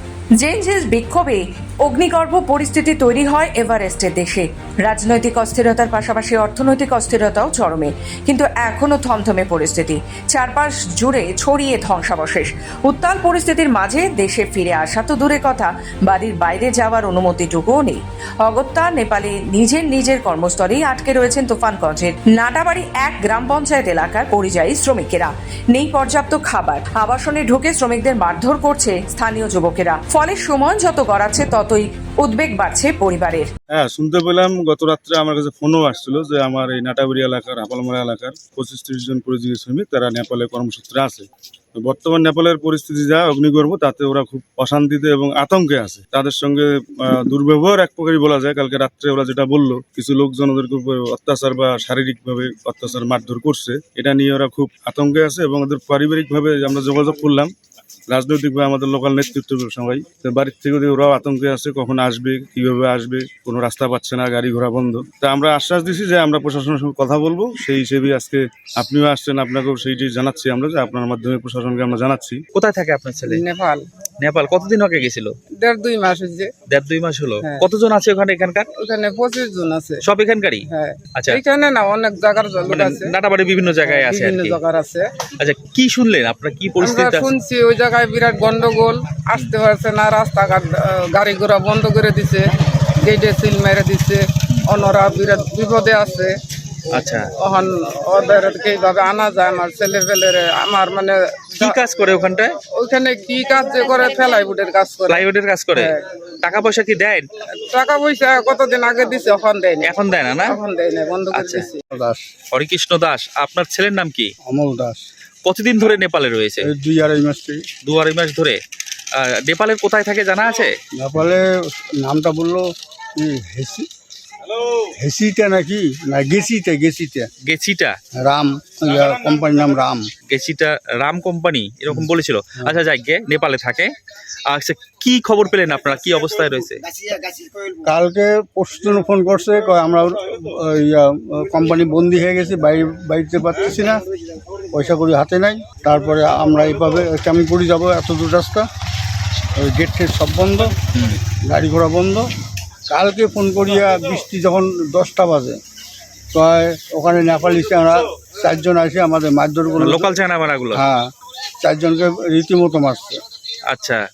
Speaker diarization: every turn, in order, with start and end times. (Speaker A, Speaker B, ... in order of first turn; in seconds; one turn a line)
Speaker A: 0.4-33.5
Speaker B: 33.7-57.5
Speaker B: 58.1-72.4
Speaker C: 72.5-73.4
Speaker D: 73.3-73.9
Speaker C: 74.2-75.3
Speaker D: 75.6-76.5
Speaker C: 76.7-78.7
Speaker D: 77.4-77.7
Speaker D: 78.8-80.0
Speaker C: 80.0-81.4
Speaker D: 80.7-83.1
Speaker C: 82.6-84.6
Speaker D: 83.8-85.1
Speaker C: 85.4-87.4
Speaker D: 86.8-96.3
Speaker C: 96.9-97.3
Speaker D: 97.4-101.8
Speaker C: 101.6-102.5
Speaker D: 102.7-105.2
Speaker C: 105.1-107.3
Speaker D: 107.5-111.8
Speaker C: 109.8-110.6
Speaker C: 111.3-111.7
Speaker E: 111.9-112.3
Speaker C: 112.5-114.3
Speaker E: 114.4-115.0
Speaker C: 115.4-116.7
Speaker E: 116.6-117.6
Speaker C: 117.8-118.6
Speaker C: 119.2-120.7
Speaker E: 121.0-123.9
Speaker E: 124.5-127.3
Speaker C: 127.4-128.0
Speaker E: 128.2-130.1
Speaker C: 130.3-133.9
Speaker C: 134.5-136.8
Speaker E: 137.7-144.0
Speaker E: 144.7-148.7
Speaker E: 149.6-150.7
Speaker E: 151.4-152.3
Speaker E: 152.9-155.6
Speaker E: 156.3-160.1
Speaker C: 159.8-160.8
Speaker E: 160.7-161.1
Speaker E: 161.6-163.2
Speaker C: 163.7-164.0